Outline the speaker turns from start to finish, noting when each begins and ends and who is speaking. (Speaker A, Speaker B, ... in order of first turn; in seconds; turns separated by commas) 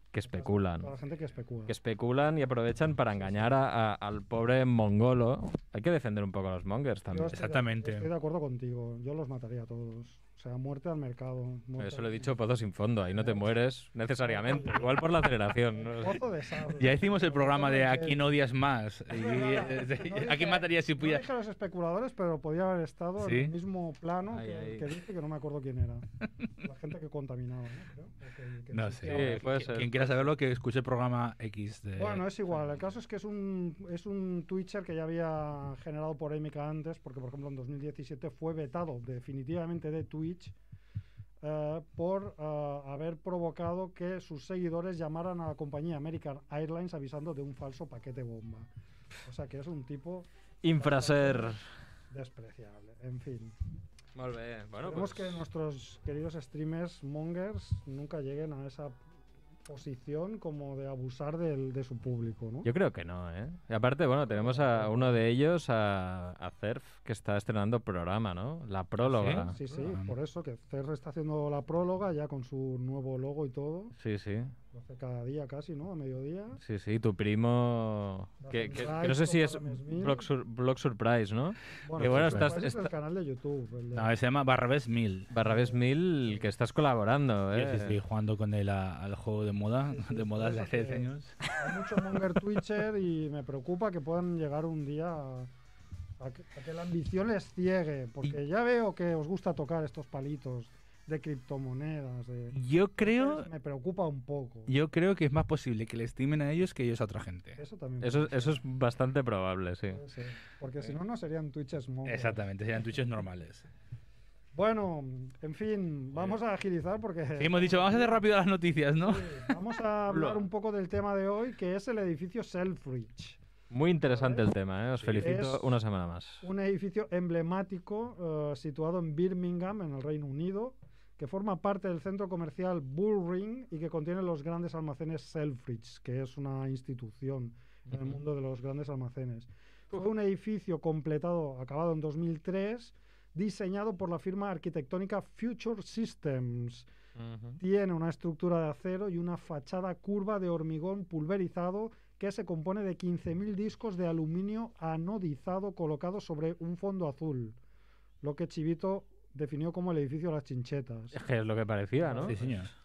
Speaker A: 0.1-0.9, Speaker B: 0.2-1.8, Speaker A: 1.7-7.4, Speaker B: 3.1-3.6, Speaker B: 7.1-12.3, Speaker C: 7.3-8.1, Speaker A: 11.8-16.2, Speaker B: 13.2-13.4, Speaker B: 14.2-18.2, Speaker C: 16.8-21.3, Speaker B: 19.1-26.1, Speaker C: 23.2-23.5, Speaker A: 24.3-25.0, Speaker B: 26.6-29.7, Speaker C: 28.7-32.3, Speaker A: 29.1-30.1, Speaker B: 32.0-40.5, Speaker B: 41.4-48.7, Speaker B: 49.2-51.6, Speaker A: 50.6-51.6, Speaker B: 52.1-53.5, Speaker A: 54.1-55.4, Speaker B: 54.8-59.0, Speaker B: 59.7-62.7, Speaker A: 62.6-69.6, Speaker B: 64.3-65.2, Speaker C: 69.0-70.1, Speaker B: 69.3-74.0, Speaker A: 74.0-74.5, Speaker B: 74.7-76.6, Speaker A: 76.6-82.9, Speaker B: 78.4-80.2, Speaker B: 81.8-84.1, Speaker C: 82.0-82.6, Speaker C: 83.9-85.3, Speaker A: 85.3-88.0, Speaker B: 85.4-86.4, Speaker C: 87.5-91.4, Speaker B: 89.9-95.5, Speaker B: 96.2-104.7, Speaker C: 102.5-103.5, Speaker C: 104.7-107.6, Speaker B: 107.6-108.6, Speaker A: 108.0-110.0, Speaker B: 109.9-112.4, Speaker C: 112.1-113.7, Speaker B: 114.5-118.2, Speaker C: 117.4-119.5, Speaker B: 119.0-123.4, Speaker A: 120.1-120.4, Speaker A: 123.7-126.4, Speaker B: 124.1-124.4, Speaker C: 125.0-125.4, Speaker B: 125.2-125.7, Speaker B: 126.4-146.9, Speaker A: 137.9-138.2, Speaker A: 147.2-147.6, Speaker B: 147.6-157.6, Speaker B: 158.2-161.2, Speaker A: 161.1-162.6, Speaker B: 162.0-162.4, Speaker C: 162.2-162.7